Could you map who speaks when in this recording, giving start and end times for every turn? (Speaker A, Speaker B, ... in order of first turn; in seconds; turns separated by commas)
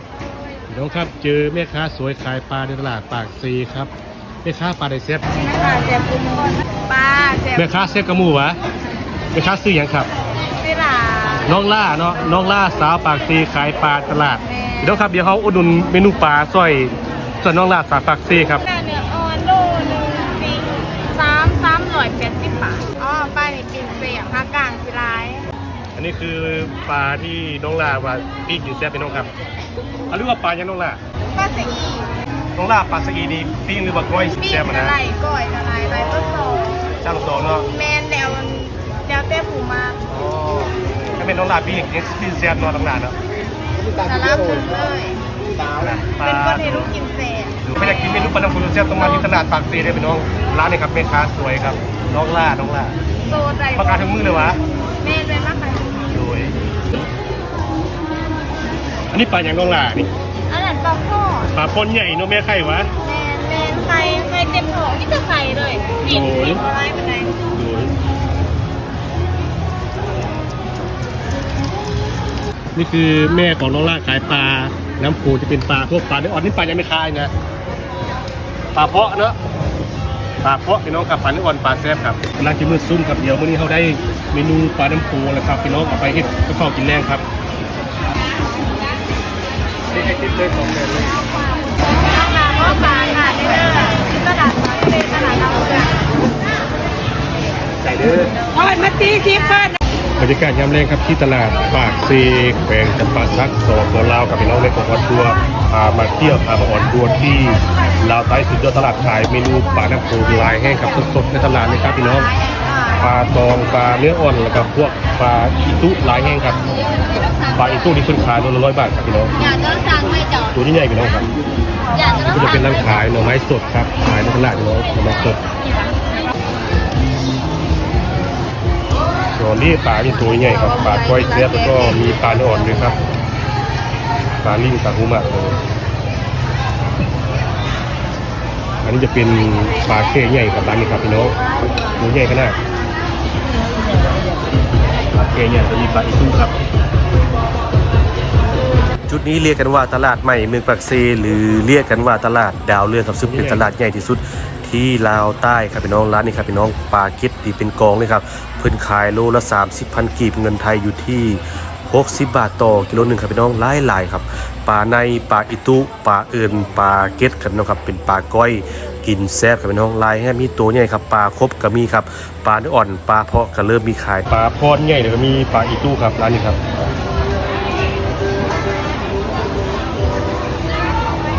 Speaker A: 0.7-3.9, Speaker A: 4.4-5.2, Speaker B: 5.3-7.7, Speaker A: 7.6-8.6, Speaker A: 9.3-10.1, Speaker B: 10.6-11.6, Speaker A: 11.5-18.6, Speaker B: 14.4-15.1, Speaker B: 18.6-25.4, Speaker A: 26.0-29.3, Speaker A: 30.1-31.0, Speaker B: 31.3-32.1, Speaker A: 32.6-35.0, Speaker B: 34.4-36.9, Speaker A: 36.0-37.7, Speaker B: 37.6-40.0, Speaker A: 40.1-43.1, Speaker B: 43.9-45.2, Speaker A: 45.8-46.9, Speaker B: 46.2-49.2, Speaker A: 47.6-53.0, Speaker B: 53.3-54.3, Speaker A: 53.8-54.6, Speaker B: 55.0-56.1, Speaker A: 56.1-56.5, Speaker A: 59.1-60.1, Speaker B: 60.5-61.5, Speaker A: 61.5-62.9, Speaker B: 63.0-67.4, Speaker A: 66.0-66.6, Speaker A: 67.5-67.9, Speaker A: 72.8-77.3, Speaker A: 78.8-79.4, Speaker A: 80.4-87.2, Speaker A: 89.9-91.2, Speaker B: 91.8-96.0, Speaker B: 98.0-99.7, Speaker A: 100.2-112.3, Speaker B: 110.2-111.0, Speaker B: 111.6-113.0, Speaker A: 113.0-116.9, Speaker A: 117.5-119.4, Speaker B: 119.4-120.5, Speaker A: 120.5-121.3, Speaker A: 122.2-125.4, Speaker A: 129.4-133.0, Speaker A: 134.4-135.6, Speaker A: 138.8-141.3, Speaker A: 142.0-142.6, Speaker A: 145.1-146.6, Speaker A: 149.1-176.6